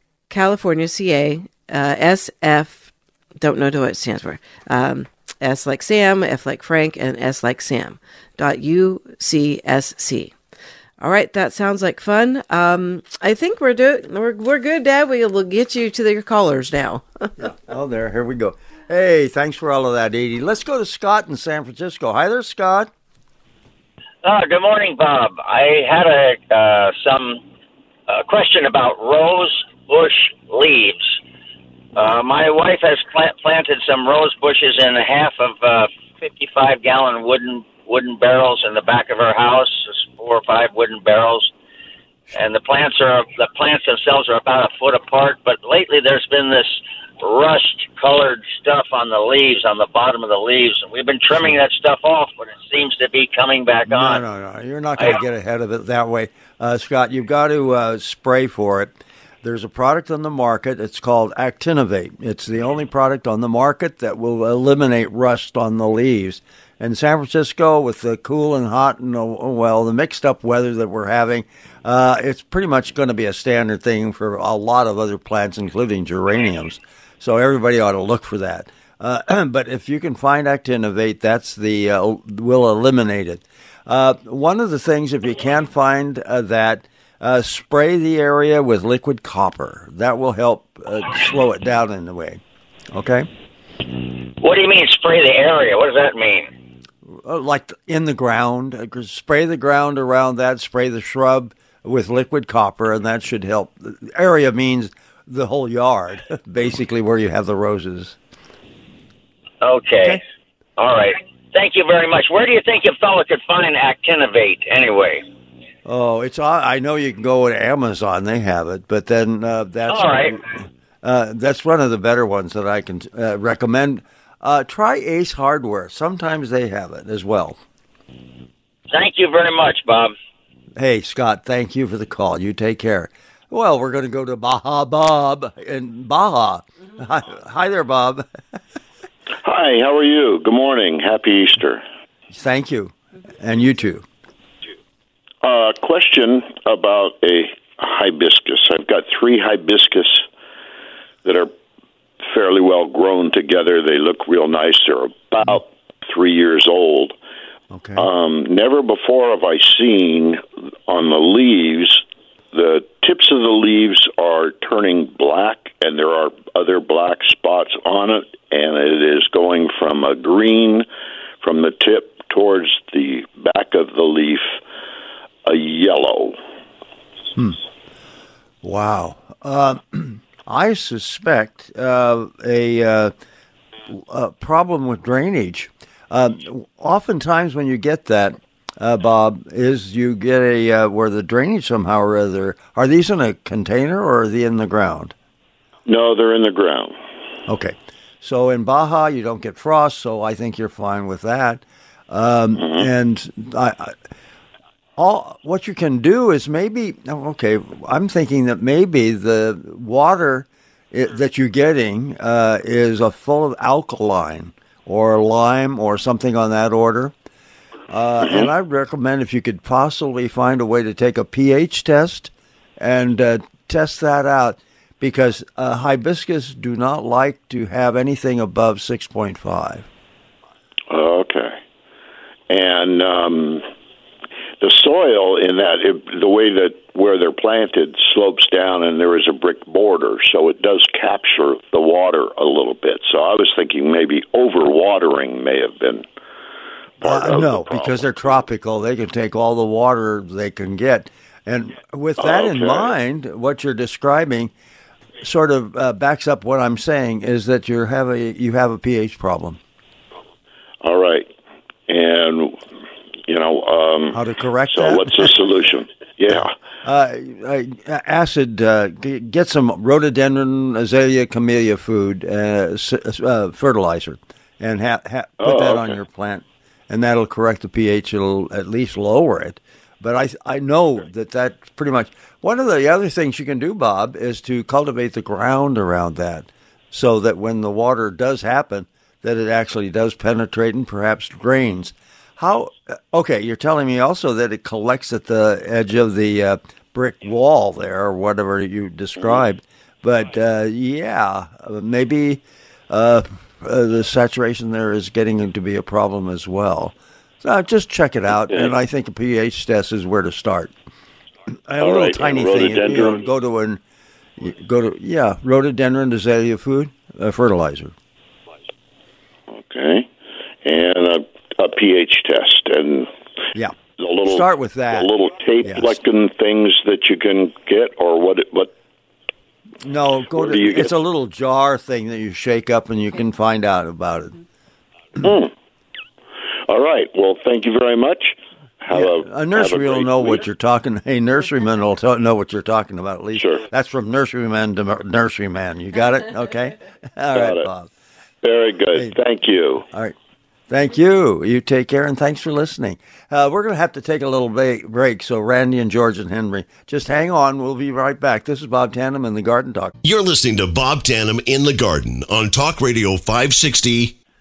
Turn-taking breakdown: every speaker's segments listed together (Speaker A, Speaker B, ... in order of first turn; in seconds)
Speaker A: 0.3-10.3, 11.0-17.3
Speaker B: 17.4-22.9, 53.9-92.4, 92.9-93.3, 97.2-108.2, 115.8-127.6, 130.8-138.2, 142.3-144.1, 157.7-158.1, 178.6-183.1, 183.9-195.1, 197.5-203.9, 205.0-217.1, 217.9-229.9, 247.0-254.5, 255.2-259.6, 264.1-265.3, 266.8-310.7, 311.7-313.8, 314.4-317.9, 323.5-325.1, 325.6-326.0, 329.8-334.4, 338.9-347.9, 350.7-359.9
Speaker C: 24.2-27.4, 28.1-31.1, 31.9-41.5, 42.3-54.2, 94.4-96.5, 109.6-110.2, 110.8-115.2, 119.9-120.4, 128.9-130.1
Speaker D: 139.4-141.8, 145.4-150.2, 151.2-151.5, 152.3-157.2, 157.9-170.8, 171.4-174.6, 175.4-176.4, 195.9-196.9, 202.5-202.9, 218.2-218.5, 230.9-231.6, 232.5-233.7, 234.6-246.1, 247.0-248.4, 252.2-252.9, 260.8-261.3, 261.9-262.6, 263.3-266.5, 275.4-276.0, 308.5-308.7, 311.8-313.3, 319.5-320.1, 320.6-323.1, 324.0-328.7, 330.3-330.9, 335.2-335.5, 336.7-340.4, 343.4-343.6, 347.3-347.7, 348.4-349.9
Speaker E: 360.0-364.1